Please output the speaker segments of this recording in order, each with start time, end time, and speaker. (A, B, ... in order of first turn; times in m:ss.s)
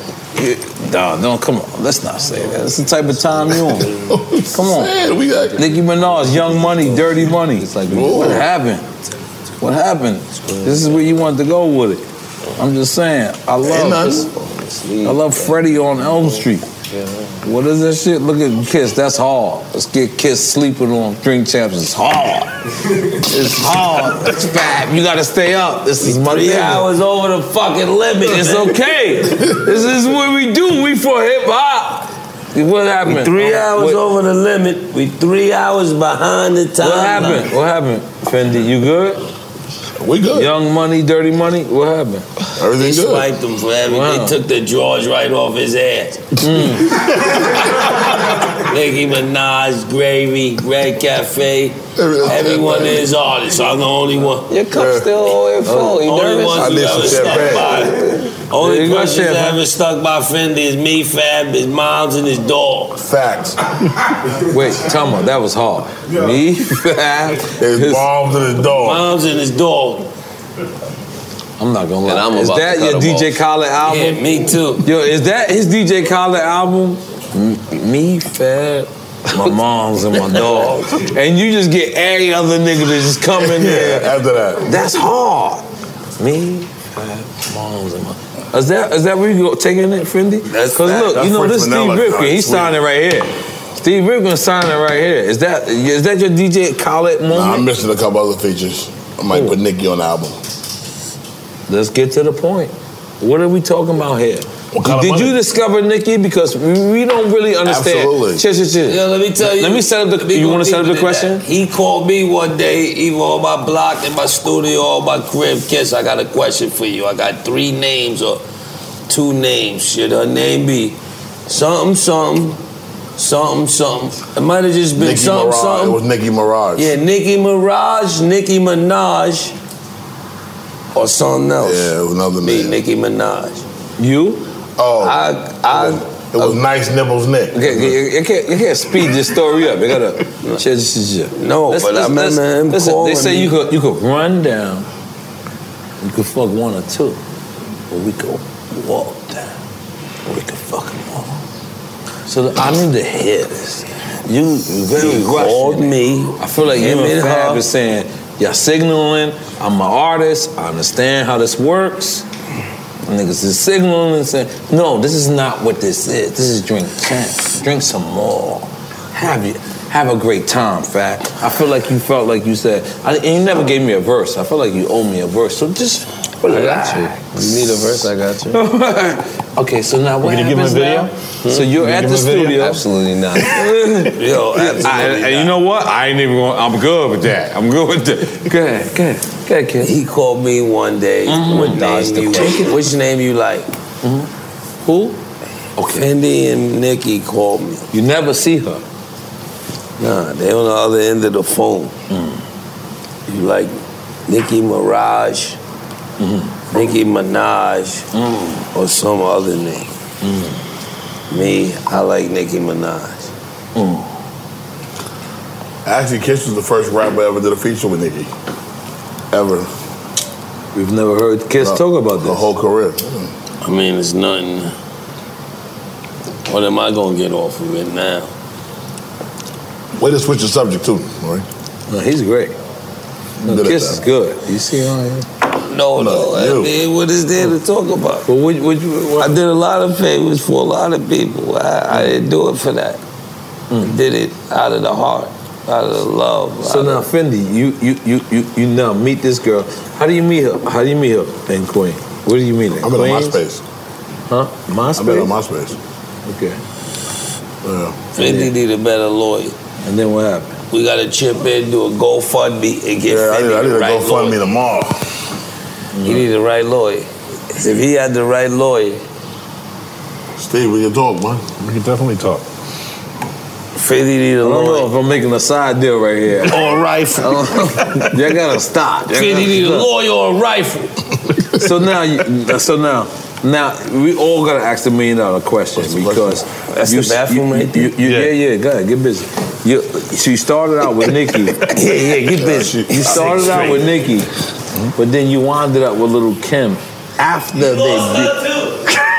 0:00.3-0:04.0 A
0:03.5-0:05.8 B
0:04.5-0:04.9 A
0:05.6-0:08.9 A
0:06.4-0:07.3 B
0:07.8-0:08.5 B
0:09.6-0:12.0 A
0:10.5-0:11.1 C
0:12.6-0:14.3 A
0:13.6-0:14.2 B
0:14.0-0:17.4 C
0:15.0-0:16.7 A
0:17.4-0:22.5 A
0:23.2-0:26.9 A
0:26.0-0:28.7 D
0:28.2-0:34.0 A
0:33.0-0:37.5 D
0:36.8-0:39.2 A
0:40.0-0:40.5 B
0:40.3-0:42.3 A
0:42.6-0:43.3 B
0:42.7-0:46.3 D
0:43.8-0:44.4 A
0:46.4-0:47.0 A
0:46.8-0:47.4 B
0:48.6-0:54.5 D
0:52.0-0:53.1 B
0:54.5-0:57.0 C
0:54.7-0:55.1 B
0:55.6-0:56.1 A
0:56.0-0:58.0 D
0:56.6-0:57.8 B
0:57.3-0:57.6 A
0:58.5-1:03.0 D
0:58.6-0:59.6 A
1:03.0-1:03.6 B
1:04.5-1:08.1 A
1:07.5-1:09.1 B
1:08.8-1:10.1 D
1:11.6-1:14.2 A
1:12.0-1:13.4 C
1:13.8-1:14.8 D
1:14.8-1:25.6 A
1:20.3-1:21.0 D
1:23.3-1:24.8 B
1:26.2-1:37.7 A
1:30.5-1:31.2 D
1:31.2-1:32.8 B
1:37.3-1:40.4 B
1:39.3-1:39.6 A
1:41.7-1:51.4 A
1:44.7-1:45.4 B
1:47.6-1:48.4 B
1:48.9-1:58.4 D
1:59.1-2:01.0 D
2:01.5-2:02.6 D
2:03.2-2:06.0 D
2:05.0-2:06.9 B
2:06.8-2:09.5 D
2:10.9-2:13.6 D
2:11.6-2:12.8 B
2:14.0-2:14.4 A
2:14.8-2:18.0 B
2:15.0-2:16.5 D
2:17.5-2:24.8 A
2:21.3-2:23.5 D
2:26.0-2:27.2 A
2:27.9-2:29.5 A
2:30.2-2:31.4 A
2:32.3-2:42.2 A
2:34.9-2:37.6 D
2:43.0-2:57.9 A
2:56.5-2:58.6 C
2:56.5-2:57.0 D
2:58.5-3:02.8 A
3:00.2-3:01.1 E
3:01.4-3:03.7 C
3:01.8-3:02.5 E
3:03.4-3:09.9 A
3:04.1-3:05.5 D
3:09.8-3:13.7 D
3:11.2-3:12.8 A
3:14.0-3:14.3 A
3:14.8-3:15.2 A
3:15.8-3:16.1 A
3:15.8-3:17.8 D
3:17.9-3:18.8 A
3:20.0-3:21.9 D
3:22.1-3:22.4 A
3:23.3-3:23.7 D
3:24.3-3:25.6 D
3:26.2-3:26.6 A
3:26.7-3:28.1 D
3:28.1-3:28.6 A
3:28.7-3:29.9 D
3:30.2-3:30.6 A
3:31.3-3:33.3 D
3:33.8-3:34.1 A
3:35.8-3:38.3 B
3:39.3-3:39.7 B
3:40.7-3:42.5 A
3:41.6-3:43.3 B
3:43.6-3:44.7 D
3:46.5-3:48.3 D
3:50.0-3:51.4 B
3:51.9-3:52.5 A
3:53.4-3:55.3 A
3:53.4-3:54.0 B
3:55.6-3:58.2 D
3:55.9-3:56.7 B
3:58.2-3:59.4 A
3:59.2-4:03.0 D
4:03.8-4:07.0 D
4:06.6-4:13.4 A
4:12.8-4:13.6 B
4:14.3-4:15.3 A
4:15.0-4:15.8 B
4:16.2-4:16.6 A
4:17.6-4:18.1 B
4:18.2-4:18.5 A
4:18.2-4:19.5 D
4:19.8-4:20.6 A
4:20.7-4:24.4 D
4:23.0-4:25.0 B
4:26.0-4:26.3 A
4:26.0-4:29.0 D
4:30.4-4:31.5 B
4:31.6-4:32.4 E
4:33.8-4:34.9 D
4:34.4-4:36.7 A
4:36.4-4:38.0 D
4:37.2-4:39.9 A
4:39.1-4:40.9 D
4:41.6-4:51.6 A
4:45.8-4:46.4 B
4:46.7-4:48.0 D
4:51.7-4:53.9 D
4:52.3-4:53.6 B
4:52.9-4:54.3 A
4:55.0-4:58.3 A
4:57.5-4:58.9 D